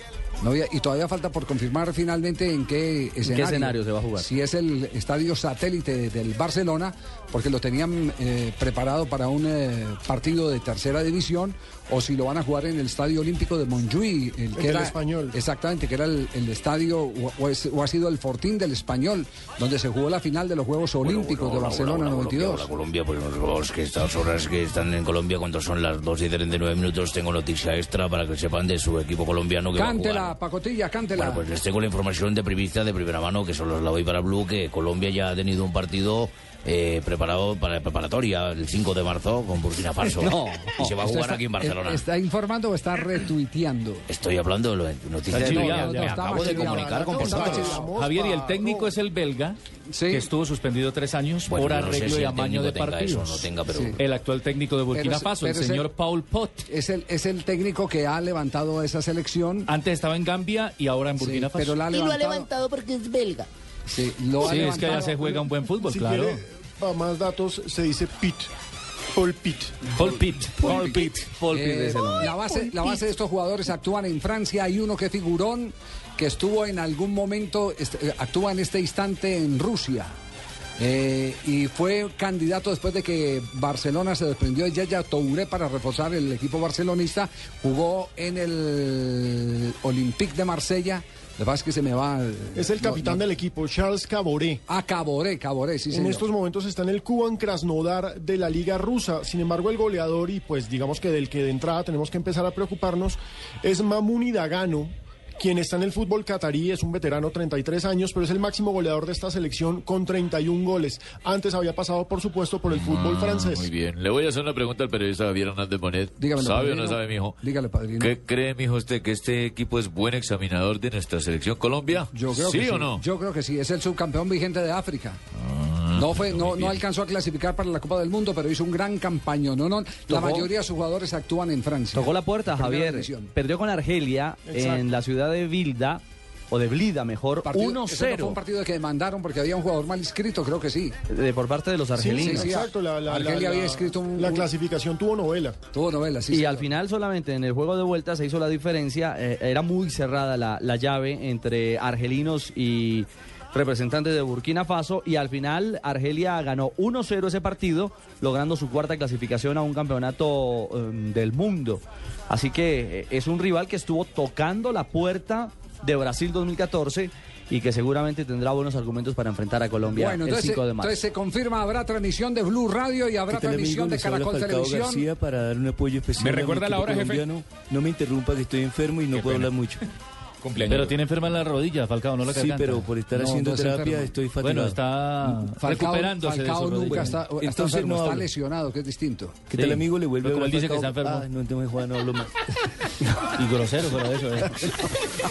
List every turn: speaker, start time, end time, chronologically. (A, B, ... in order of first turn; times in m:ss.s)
0:00.4-0:22.7 A
0:03.2-0:04.3 B
0:14.6-0:15.4 C
0:21.0-0:30.3 D
0:29.7-0:31.5 A
0:31.1-0:42.0 D
0:40.1-0:44.1 A
0:40.2-0:40.6 B
0:44.1-0:47.8 D
0:45.3-0:46.8 E
0:45.4-0:47.9 A
0:46.8-0:48.9 C
0:47.9-0:49.6 E
0:49.9-0:50.3 A
0:50.1-0:56.7 E
0:51.5-0:54.0 D
0:53.7-0:54.0 A
0:54.9-0:55.9 A
0:56.7-0:59.7 A
0:59.7-1:02.0 E
1:01.2-1:02.5 A
1:03.9-1:05.2 A
1:04.4-1:06.4 E
1:05.0-1:08.5 C
1:09.1-1:09.8 C
1:10.0-1:11.9 E
1:10.6-1:20.1 A
1:11.2-1:12.3 B
1:20.8-1:33.2 A
1:32.5-1:34.6 C
1:34.7-1:36.2 A
1:35.9-1:53.7 C
1:52.7-1:57.4 F
1:56.2-1:58.1 A
1:58.0-2:03.0 F
2:02.1-2:05.2 A
2:05.4-2:06.8 F
2:05.9-2:13.3 A
2:10.1-2:10.5 B
2:11.9-2:18.4 B
2:14.5-2:14.8 C
2:17.4-2:20.9 A
2:21.1-2:22.5 B
2:21.9-2:25.6 C
2:22.2-2:24.5 A
2:25.7-2:26.7 A
2:26.3-2:51.0 B
2:50.0-2:55.1 A
2:53.3-2:59.8 G
2:56.2-2:57.3 H
2:59.1-2:59.5 H
3:00.4-3:01.0 H
3:00.7-3:02.9 E
3:02.2-3:04.9 G
3:03.1-3:04.1 A
3:04.4-3:07.2 E
3:05.6-3:09.4 A
3:07.0-3:08.3 G
3:09.5-3:12.3 G
3:09.5-3:11.2 E
3:13.3-3:14.9 E